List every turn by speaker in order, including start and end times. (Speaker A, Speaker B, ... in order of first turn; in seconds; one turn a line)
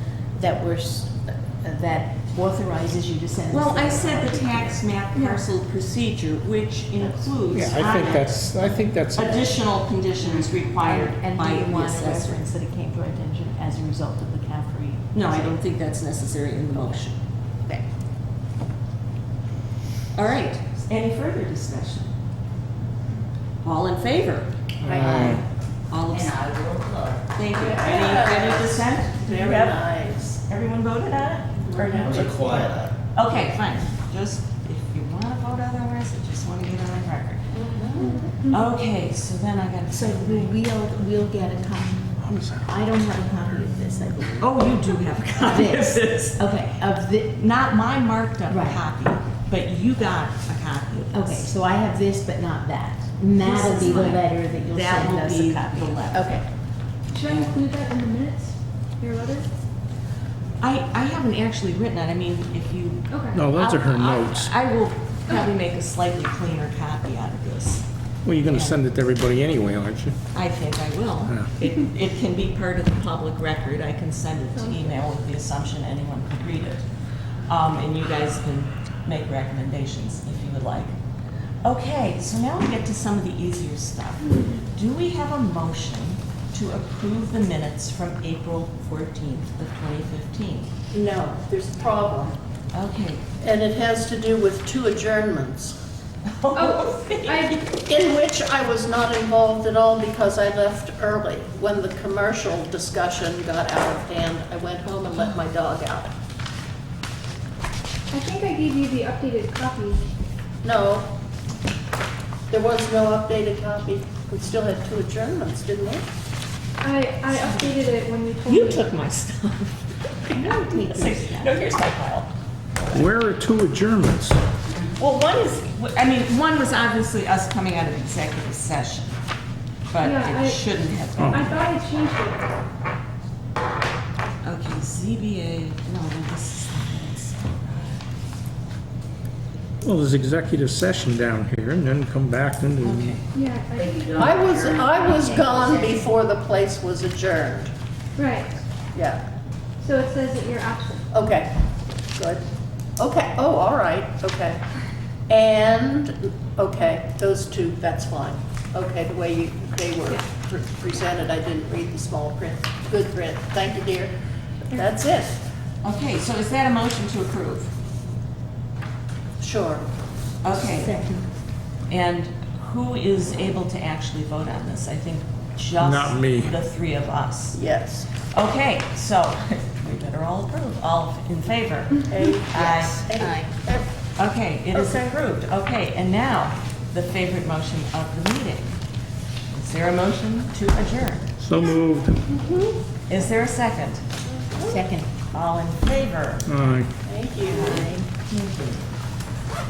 Speaker A: 0.3-4.8
Speaker B: 3.5-12.4
Speaker C: 5.1-5.4
Speaker D: 7.5-9.5
Speaker A: 10.4-15.6
Speaker B: 15.1-17.2
Speaker A: 16.7-17.1
Speaker B: 20.1-22.1
Speaker B: 23.6-24.5
Speaker D: 24.8-25.4
Speaker E: 24.8-25.4
Speaker A: 25.0-25.4
Speaker B: 25.9-26.6
Speaker F: 26.1-27.2
Speaker B: 27.3-37.5
Speaker E: 27.5-30.3
Speaker E: 31.6-32.7
Speaker F: 32.0-32.8
Speaker E: 37.5-38.4
Speaker C: 38.0-38.6
Speaker B: 38.4-40.5
Speaker A: 39.9-44.7
Speaker D: 42.2-42.6
Speaker B: 44.4-46.5
Speaker A: 45.4-47.4
Speaker B: 47.3-51.5
Speaker A: 48.5-48.8
Speaker A: 51.1-56.5
Speaker B: 53.4-56.5
Speaker C: 57.1-59.5
Speaker B: 57.1-57.6
Speaker B: 60.6-67.9
Speaker C: 63.1-63.4
Speaker D: 63.3-64.5
Speaker D: 68.2-70.2
Speaker B: 68.4-69.2
Speaker B: 70.3-76.9
Speaker D: 71.2-71.5
Speaker C: 74.5-74.9
Speaker B: 77.4-80.9
Speaker B: 81.6-90.7
Speaker C: 84.2-84.6
Speaker E: 90.9-92.3
Speaker B: 92.7-93.2
Speaker E: 93.4-95.8
Speaker B: 96.2-97.7
Speaker C: 96.5-97.6
Speaker E: 97.7-106.1
Speaker C: 108.1-110.0
Speaker E: 110.6-111.1
Speaker E: 112.5-116.0
Speaker C: 116.8-118.9
Speaker B: 118.4-123.1
Speaker A: 120.3-121.5
Speaker D: 122.9-124.4
Speaker B: 125.0-129.2
Speaker B: 129.9-131.6
Speaker C: 130.0-130.6
Speaker D: 131.2-131.6
Speaker C: 131.3-132.5
Speaker B: 134.4-138.0
Speaker D: 139.8-143.2
Speaker B: 142.8-143.2
Speaker C: 143.3-144.2
Speaker F: 143.8-146.0
Speaker E: 144.2-147.7
Speaker C: 148.2-148.6
Speaker E: 148.9-149.2
Speaker C: 149.8-151.1
Speaker E: 151.1-151.6
Speaker E: 152.1-152.4
Speaker E: 153.0-154.6
Speaker E: 155.3-164.1
Speaker C: 164.7-165.0
Speaker E: 164.7-165.4
Speaker B: 165.8-167.7
Speaker E: 169.4-169.8
Speaker B: 170.4-171.1
Speaker A: 170.6-171.2
Speaker B: 171.9-177.7
Speaker D: 175.8-176.6
Speaker E: 177.5-178.1
Speaker B: 178.2-183.1
Speaker E: 182.1-183.9
Speaker B: 184.2-188.8
Speaker E: 184.7-185.0
Speaker B: 189.5-191.2
Speaker D: 191.4-192.3
Speaker E: 192.4-192.7
Speaker B: 193.1-194.0
Speaker E: 194.2-194.8
Speaker A: 194.7-195.1
Speaker B: 195.3-196.5
Speaker D: 196.4-196.9
Speaker E: 197.0-197.9
Speaker B: 197.4-198.8
Speaker A: 197.5-198.1